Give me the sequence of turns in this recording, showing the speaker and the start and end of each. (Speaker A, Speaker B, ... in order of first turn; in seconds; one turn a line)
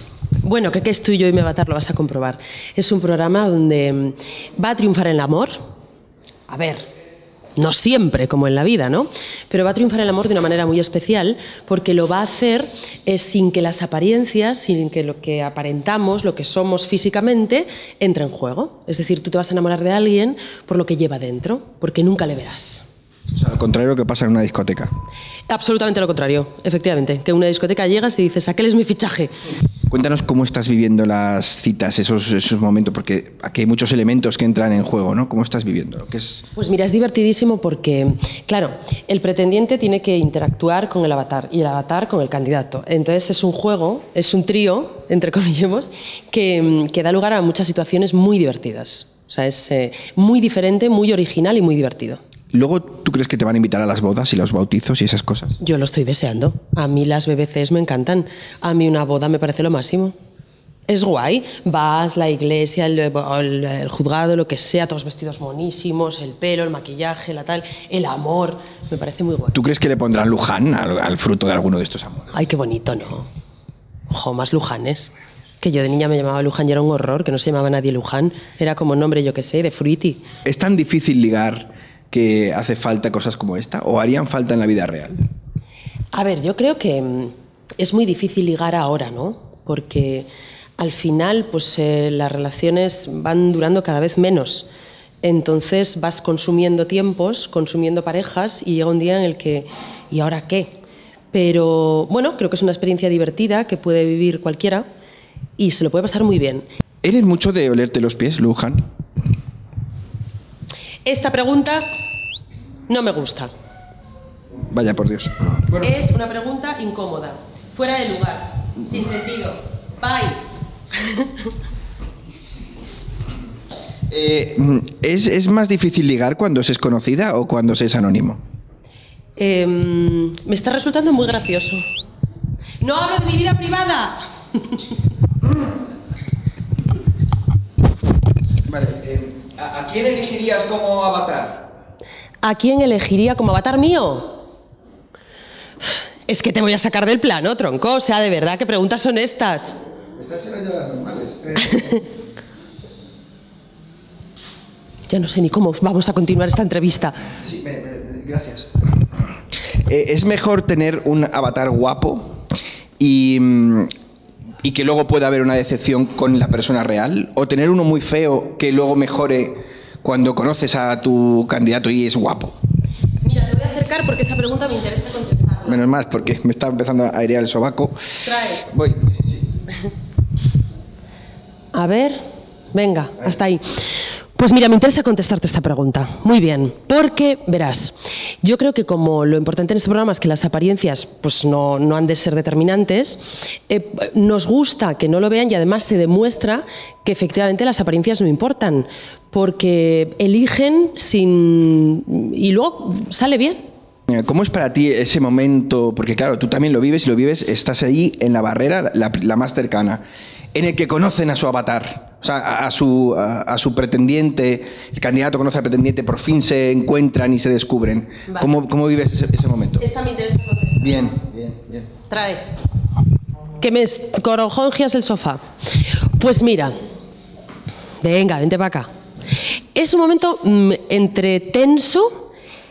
Speaker A: 0.4-5.6
Speaker A: 6.5-6.8
Speaker A: 7.5-22.8
Speaker B: 23.3-24.9
Speaker A: 25.5-29.3
Speaker B: 29.9-36.4
Speaker A: 36.5-52.2
Speaker B: 52.5-55.5
Speaker A: 55.6-60.1
Speaker A: 60.9-69.6
Speaker B: 69.5-72.3
Speaker A: 72.3-73.3
Speaker A: 74.1-80.2
Speaker B: 80.4-85.3
Speaker A: 86.1-94.7
Speaker A: 95.2-100.8
Speaker A: 101.3-104.8
Speaker A: 105.6-106.7
Speaker B: 107.0-108.8
Speaker A: 111.0-111.8
Speaker A: 112.9-113.5
Speaker B: 114.6-115.9
Speaker A: 115.8-121.5
Speaker B: 124.1-128.4
Speaker A: 129.4-131.8
Speaker A: 132.8-134.8
Speaker B: 138.6-141.7
Speaker A: 142.4-144.4
Speaker A: 145.8-149.8
Speaker B: 150.2-152.0
Speaker A: 151.6-152.0
Speaker A: 155.1-157.3
Speaker B: 157.4-159.3
Speaker B: 159.8-162.4
Speaker B: 163.0-163.9
Speaker B: 164.6-172.6
Speaker A: 173.2-175.8
Speaker B: 175.6-179.4
Speaker A: 178.2-178.7
Speaker A: 181.7-182.2
Speaker A: 182.7-183.8
Speaker A: 184.3-203.6
Speaker B: 204.1-219.8
Speaker A: 219.8-221.1
Speaker B: 220.8-221.9
Speaker A: 222.1-222.4
Speaker A: 223.6-225.4
Speaker A: 226.1-226.8
Speaker A: 228.0-228.9
Speaker A: 229.7-232.3